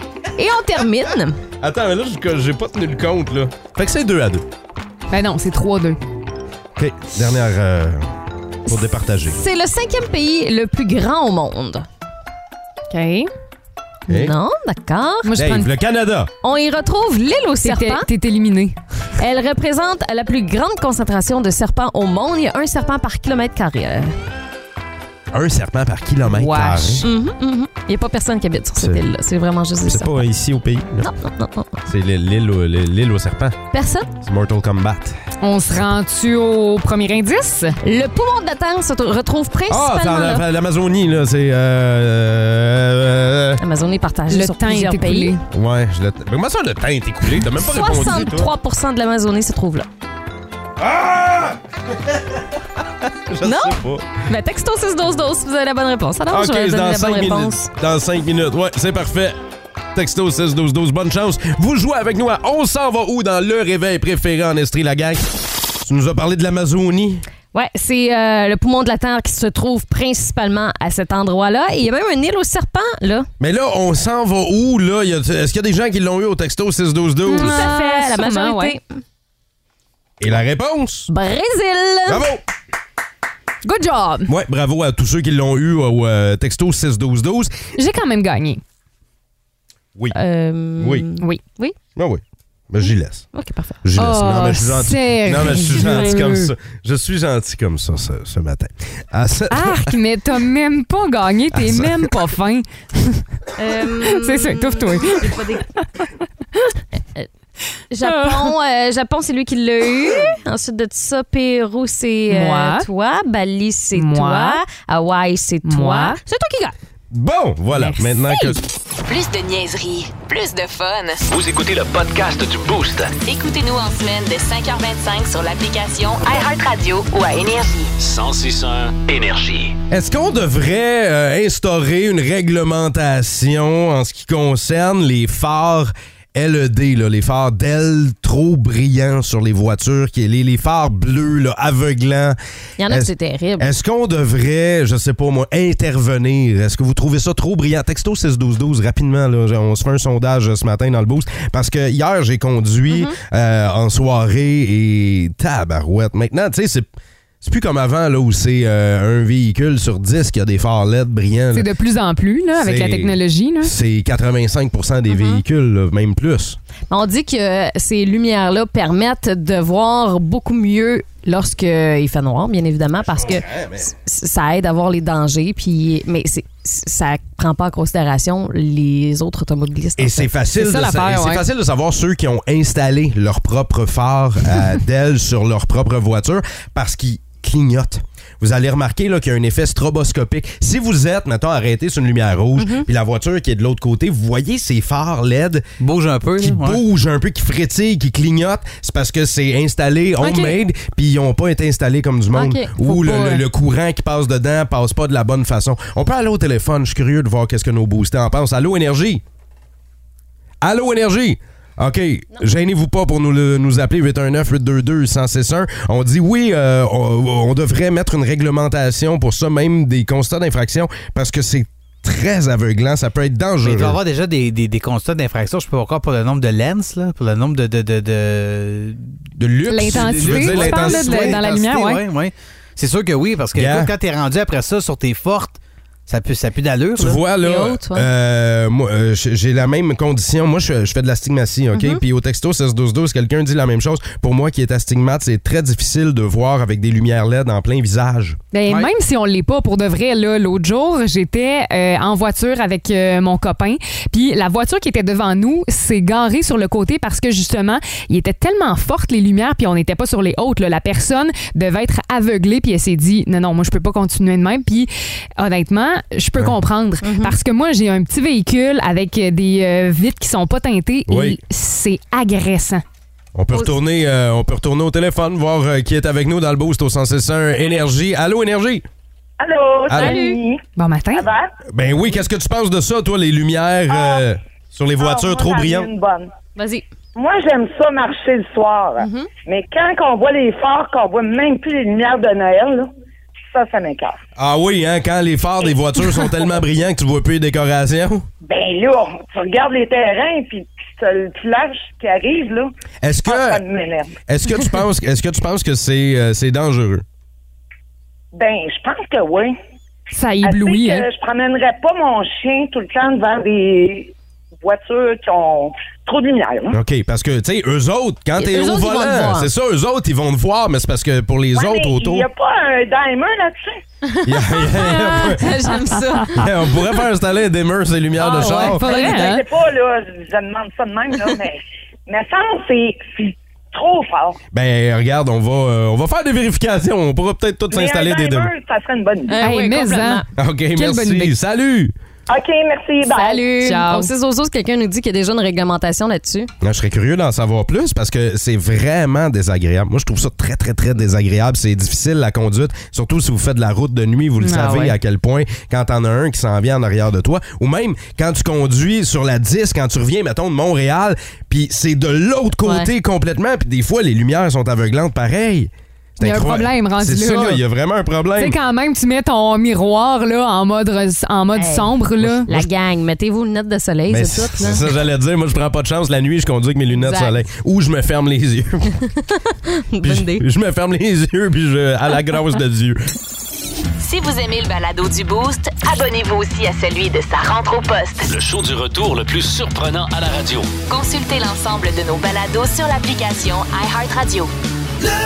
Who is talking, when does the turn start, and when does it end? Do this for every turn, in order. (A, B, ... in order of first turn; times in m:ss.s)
0:00.4-0:01.4 A
0:01.6-0:04.4 B
0:05.1-0:06.0 C
0:06.8-0:08.2 B
0:08.7-0:09.4 B
0:09.2-0:11.9 A
0:12.9-0:13.3 C
0:14.1-0:14.4 B
0:14.1-0:15.3 A
0:15.2-0:15.7 C
0:15.4-0:16.3 B
0:16.4-0:18.1 A
0:17.6-0:18.8 C
0:19.2-0:24.2 A
0:25.3-0:27.1 B
0:26.3-0:27.1 C
0:27.0-0:30.2 A
0:28.8-0:29.1 B
0:29.9-0:31.1 B
0:31.0-0:31.8 A
0:31.9-0:33.6 B
0:33.7-0:34.1 A
0:34.2-0:35.2 B
0:35.4-0:37.8 C
0:37.8-0:40.4 A
0:39.7-0:43.6 B
0:43.6-0:45.4 A
0:44.3-0:45.4 C
0:45.5-0:48.5 B
0:47.5-0:49.9 A
0:50.8-0:54.1 B
0:53.4-0:57.7 A
0:56.3-0:59.4 B
0:59.9-1:07.2 B
1:07.5-1:13.3 A
1:13.4-1:17.7 B
1:17.2-1:19.0 A
1:17.3-1:18.8 C
1:20.2-1:21.1 B
1:21.1-1:22.3 A
1:22.1-1:22.4 B
1:23.6-1:24.3 C
1:24.3-1:27.7 B
1:27.8-1:28.6 C
1:30.1-1:31.8 A
1:30.8-1:31.1 B
1:32.0-1:33.3 B
1:33.3-1:33.8 A
1:33.8-1:40.0 B
1:34.0-1:36.5 C
1:35.6-1:36.1 A
1:39.5-1:46.1 C
1:41.5-1:42.2 B
1:43.6-1:45.7 A
1:47.0-1:47.3 A
1:47.9-1:56.3 A
1:48.0-1:48.5 C
1:52.3-1:52.9 C
1:54.0-1:54.6 C
1:55.6-1:56.7 C
1:57.1-1:58.6 B
1:57.8-1:58.6 C
1:59.1-2:01.2 D
2:01.3-2:03.2 E
2:03.2-2:07.9 D
2:08.0-2:09.8 E
2:09.9-2:36.9 B
2:22.8-2:23.7 A
2:32.9-2:33.2 A
2:37.4-2:41.7 B
2:41.5-2:43.7 C
2:42.6-2:46.6 B
2:45.1-2:45.4 A
2:46.9-3:00.3 A
2:53.1-2:53.9 B
3:00.0-3:15.7 B
3:00.5-3:01.4 C
3:12.6-3:12.9 A
3:15.8-3:16.8 F
3:16.4-3:29.2 B
3:20.2-3:20.5 C
3:22.4-3:22.7 A
3:22.8-3:23.4 C
3:30.6-3:44.0 B
3:43.6-3:49.2 F
3:49.4-3:51.4 B
3:49.6-3:52.0 C
3:49.8-3:57.2 F
3:53.5-3:53.9 B
3:57.0-4:08.4 B
3:57.4-3:58.1 A
4:01.7-4:02.0 A
4:08.5-4:32.8 C
4:27.0-4:27.4 A
4:31.1-4:31.4 B
4:33.4-4:38.9 B
4:39.4-4:41.5 G
4:39.9-4:40.2 B
4:39.9-4:40.4 A
4:40.8-4:41.3 C
4:41.7-4:45.9 B
4:43.9-4:44.2 G
4:45.0-4:46.3 G
4:46.6-4:46.9 A
4:47.2-4:52.9 G
4:49.0-4:49.3 A
4:53.5-4:54.2 G
4:54.4-4:58.3 B
4:58.4-5:02.7 G
5:03.0-5:03.6 B
5:03.3-5:04.1 G
5:04.3-5:07.0 B
5:08.3-5:09.5 G
5:10.1-5:11.1 C
5:10.4-5:16.8 G
5:16.7-5:22.3 B
5:18.4-5:19.5 A
5:21.5-5:23.8 G
5:24.2-5:25.6 B
5:24.6-5:26.5 A
5:26.3-5:29.0 B
5:28.2-5:29.4 C
5:28.6-5:34.4 G
5:34.5-5:38.5 B
5:37.7-5:39.4 G
5:39.3-5:40.2 A
5:39.4-5:41.3 C
5:40.4-5:41.9 B
5:42.3-5:43.4 G
5:43.1-5:46.5 A
5:43.4-5:44.1 C
5:46.6-6:08.6 B
5:54.4-5:54.9 C
6:02.6-6:02.9 A
6:06.2-6:07.6 C
6:08.4-6:12.7 C
6:11.6-6:14.9 A
6:14.1-6:19.1 B
6:19.4-6:20.4 A
6:20.0-6:23.0 B
6:24.0-6:28.3 D
6:28.3-6:30.7 E
6:30.9-6:34.5 D